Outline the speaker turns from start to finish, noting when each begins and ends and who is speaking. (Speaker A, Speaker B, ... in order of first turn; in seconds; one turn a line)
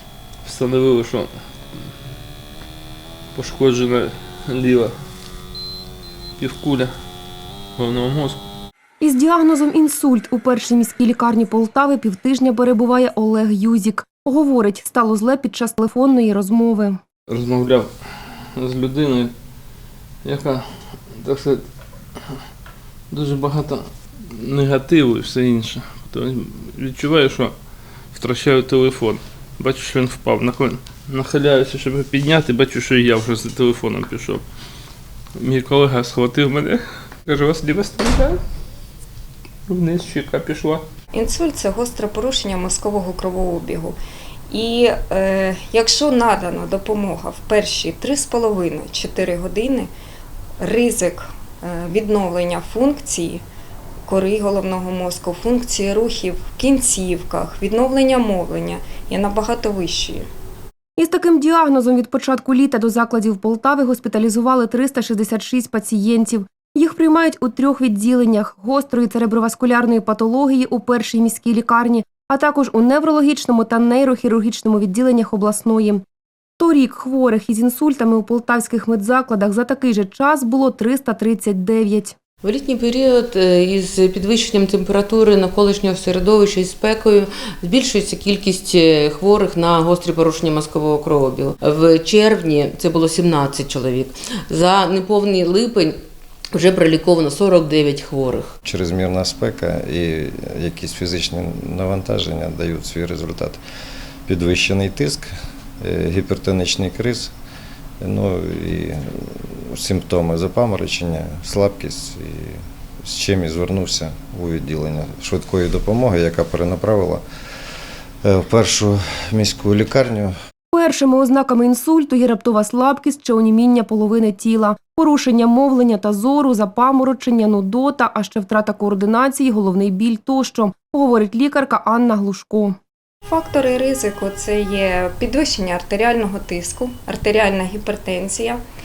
Speaker A: 0.4-1.3
Speaker A: 3.3-4.9
Speaker A: 6.4-6.9
Speaker A: 7.8-8.4
Speaker B: 9.0-17.0
Speaker A: 17.3-17.9
Speaker A: 18.6-19.3
Speaker A: 20.2-20.6
Speaker A: 21.1-21.6
Speaker A: 23.1-27.5
Speaker A: 28.1-34.4
Speaker A: 35.4-38.4
Speaker A: 39.7-40.8
Speaker C: 41.1-44.0
Speaker C: 44.5-49.9
Speaker C: 50.6-53.4
Speaker C: 54.1-60.2
Speaker B: 61.0-76.0
Speaker B: 76.6-82.2
Speaker D: 82.4-96.0
Speaker D: 96.5-98.5
Speaker E: 98.6-103.6
Speaker E: 104.3-107.3
Speaker E: 108.0-117.2
Speaker E: 118.2-120.3
Speaker B: 120.7-132.8
Speaker C: 133.2-138.6